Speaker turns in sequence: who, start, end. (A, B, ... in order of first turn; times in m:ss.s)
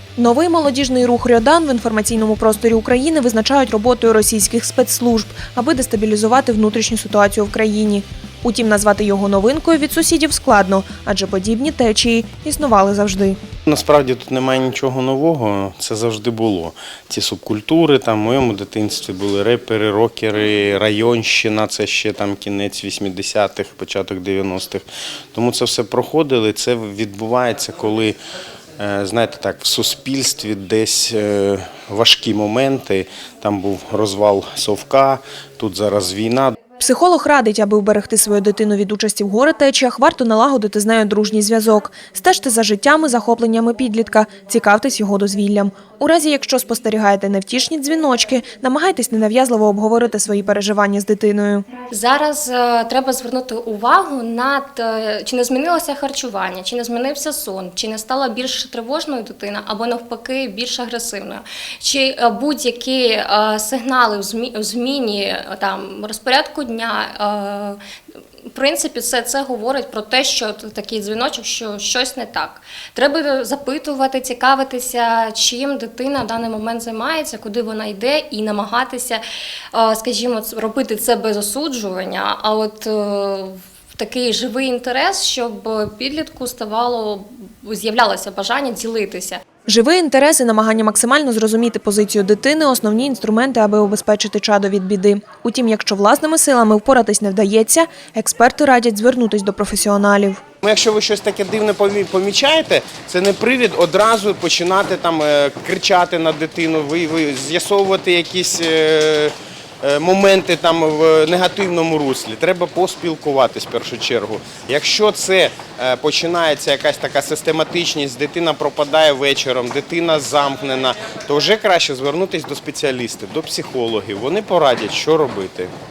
0:00.2-0:13.4 A
0:13.7-0:28.2 B
0:28.8-0:36.6 B
0:36.8-0:51.7 A
0:51.9-1:07.8 C
1:08.5-1:29.4 C
1:29.7-1:40.4 A
1:40.6-2:05.7 B